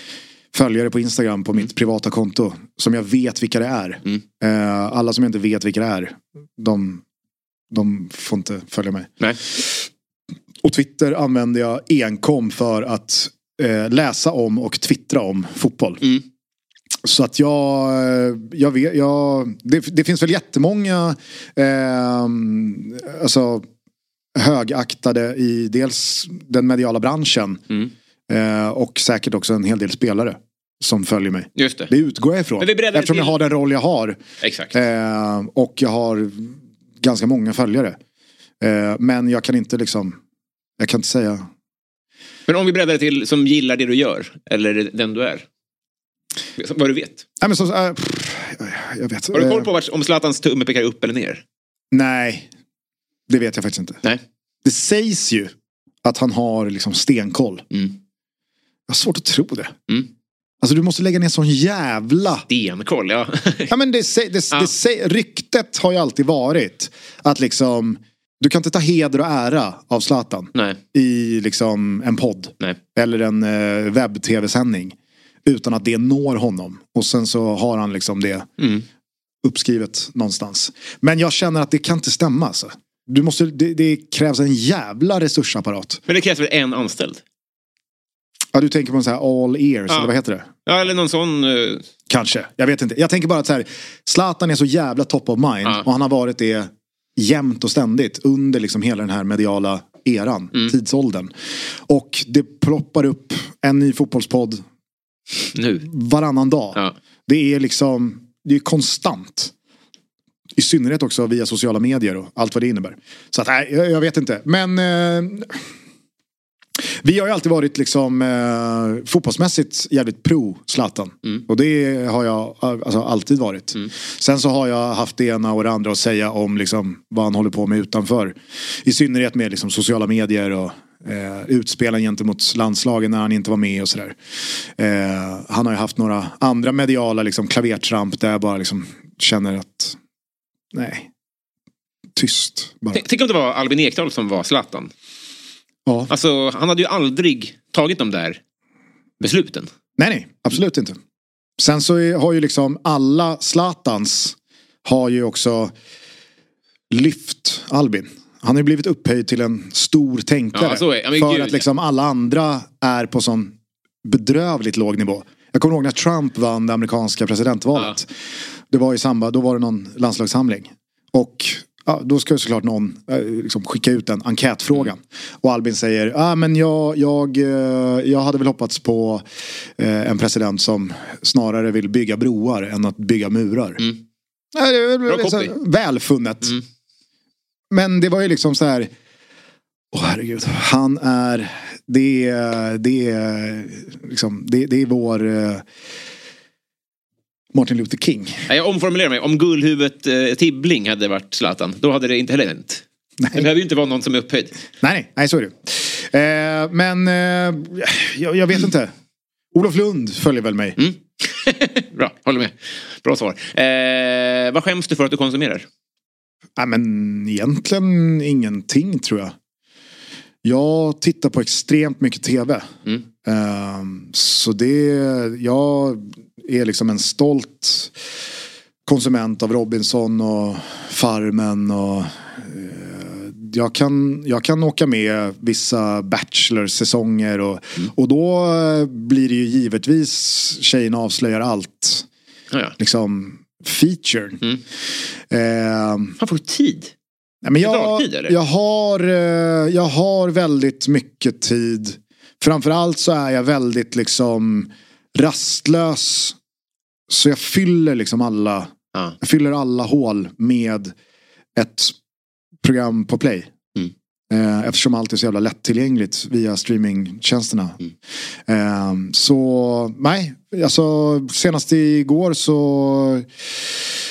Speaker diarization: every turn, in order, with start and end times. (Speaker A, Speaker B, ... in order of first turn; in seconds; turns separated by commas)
Speaker A: 0.5-7.0, Speaker A: 7.7-9.9, Speaker A: 10.6-16.0, Speaker A: 17.0-23.7, Speaker A: 24.4-27.6, Speaker A: 28.3-34.2, Speaker B: 31.6-31.9, Speaker B: 32.6-33.4, Speaker B: 34.4-34.7, Speaker A: 34.7-38.0, Speaker A: 38.6-40.2, Speaker A: 40.8-41.5, Speaker B: 42.5-45.5, Speaker B: 46.6-47.2, Speaker A: 47.4-49.7, Speaker B: 49.3-51.4, Speaker A: 51.9-52.5, Speaker A: 53.3-54.0, Speaker A: 54.6-55.5, Speaker A: 56.0-57.6, Speaker A: 58.9-59.8, Speaker A: 60.6-62.5, Speaker B: 62.5-63.7, Speaker A: 63.7-78.5, Speaker B: 78.6-78.8, Speaker A: 79.4-86.0, Speaker B: 86.1-87.2, Speaker A: 88.5-90.5, Speaker B: 90.7-91.8, Speaker A: 92.1-101.3, Speaker A: 101.9-104.6, Speaker B: 105.5-105.9, Speaker A: 105.8-109.5, Speaker A: 110.5-115.6, Speaker A: 116.8-134.2, Speaker A: 134.8-140.0, Speaker A: 140.7-141.1, Speaker A: 142.2-143.1, Speaker B: 142.9-144.9, Speaker B: 146.1-148.4, Speaker B: 149.2-149.7, Speaker A: 150.0-151.0, Speaker A: 151.6-155.7, Speaker A: 156.9-168.1, Speaker B: 160.6-161.6, Speaker A: 168.7-179.2, Speaker A: 179.8-183.9, Speaker A: 184.5-186.6, Speaker B: 185.1-185.5, Speaker A: 187.7-188.9, Speaker A: 189.9-195.7, Speaker A: 197.5-198.5, Speaker B: 198.5-204.6, Speaker A: 204.8-208.9, Speaker A: 209.5-210.8, Speaker B: 210.8-215.7, Speaker A: 216.6-219.3, Speaker A: 220.4-222.7, Speaker A: 223.2-227.9, Speaker A: 228.9-242.1, Speaker A: 242.8-244.4, Speaker A: 245.3-246.2, Speaker B: 246.2-246.9, Speaker A: 247.4-256.4, Speaker B: 247.6-248.3, Speaker A: 257.1-260.9, Speaker A: 261.6-261.9, Speaker A: 262.6-263.5, Speaker A: 264.3-267.8, Speaker A: 268.5-273.8